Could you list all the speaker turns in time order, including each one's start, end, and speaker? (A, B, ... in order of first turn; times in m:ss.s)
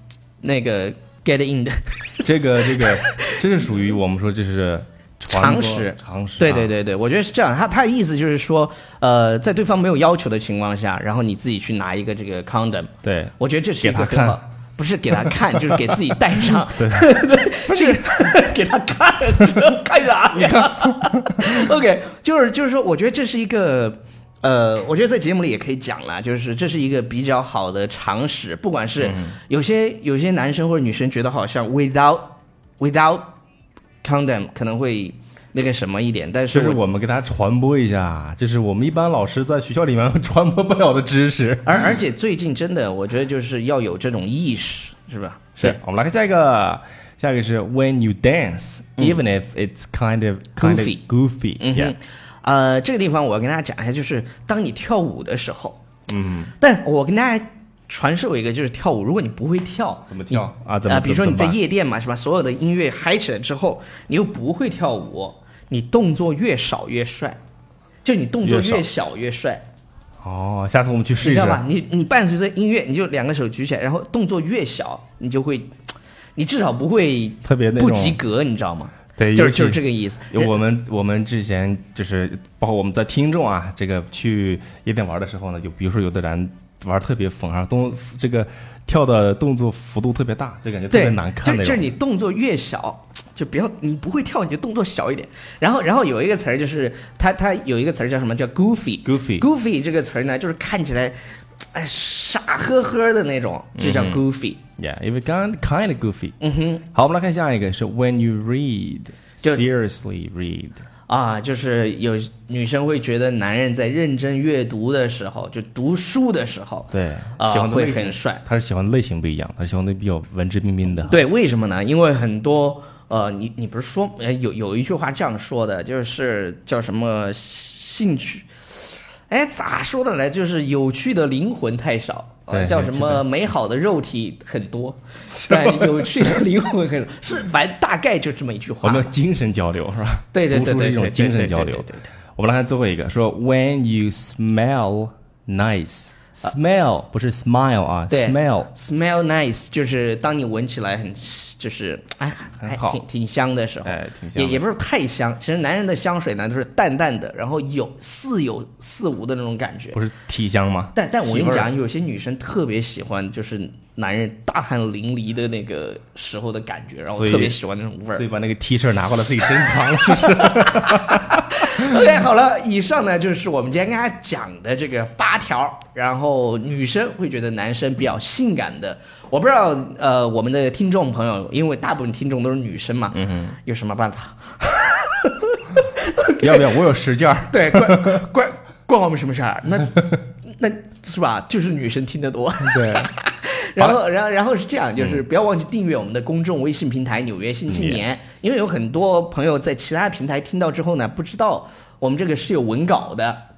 0:00.4-0:03.4 A
0:02.2-0:06.7 B
0:05.3-0:33.3 A
0:13.0-0:14.4 B
0:16.7-0:17.1 B
0:17.7-0:18.3 B
0:20.3-0:21.5 B
0:29.0-0:29.4 B
0:34.0-0:36.8 A
0:36.5-0:41.9 B
0:41.6-0:45.8 A
0:45.6-0:51.9 B
0:49.0-0:49.2 A
0:50.6-0:51.0 A
0:51.6-0:55.8 A
0:56.1-0:56.5 B
0:56.6-1:07.4 A
1:00.1-1:01.6 B
1:08.0-1:09.6 A
1:08.4-1:08.9 B
1:10.2-1:11.6 B
1:11.2-1:15.7 A
1:16.4-1:20.5 A
1:17.4-1:18.2 B
1:19.2-1:19.8 B
1:20.3-1:31.9 B
1:30.9-1:41.2 A
1:39.0-1:39.4 B
1:41.7-1:44.6 A
1:43.8-1:44.2 B
1:44.8-1:46.4 B
1:46.4-1:46.8 A
1:46.9-1:50.8 B
1:51.1-1:58.4 A
1:56.9-2:01.2 B
2:01.0-2:08.5 A
2:09.3-2:19.1 A
2:12.5-2:13.2 B
2:15.3-2:16.3 B
2:18.8-2:28.7 B
2:20.3-2:22.1 A
2:28.1-2:40.0 A
2:32.6-2:33.0 B
2:33.8-2:34.6 B
2:39.9-2:41.7 B
2:40.9-2:48.2 A
2:47.2-2:47.6 B
2:48.1-2:51.9 B
2:49.7-3:06.6 A
3:03.1-3:03.6 B
3:06.4-3:08.2 B
3:07.5-3:23.4 A
3:12.6-3:13.1 B
3:17.7-3:18.0 B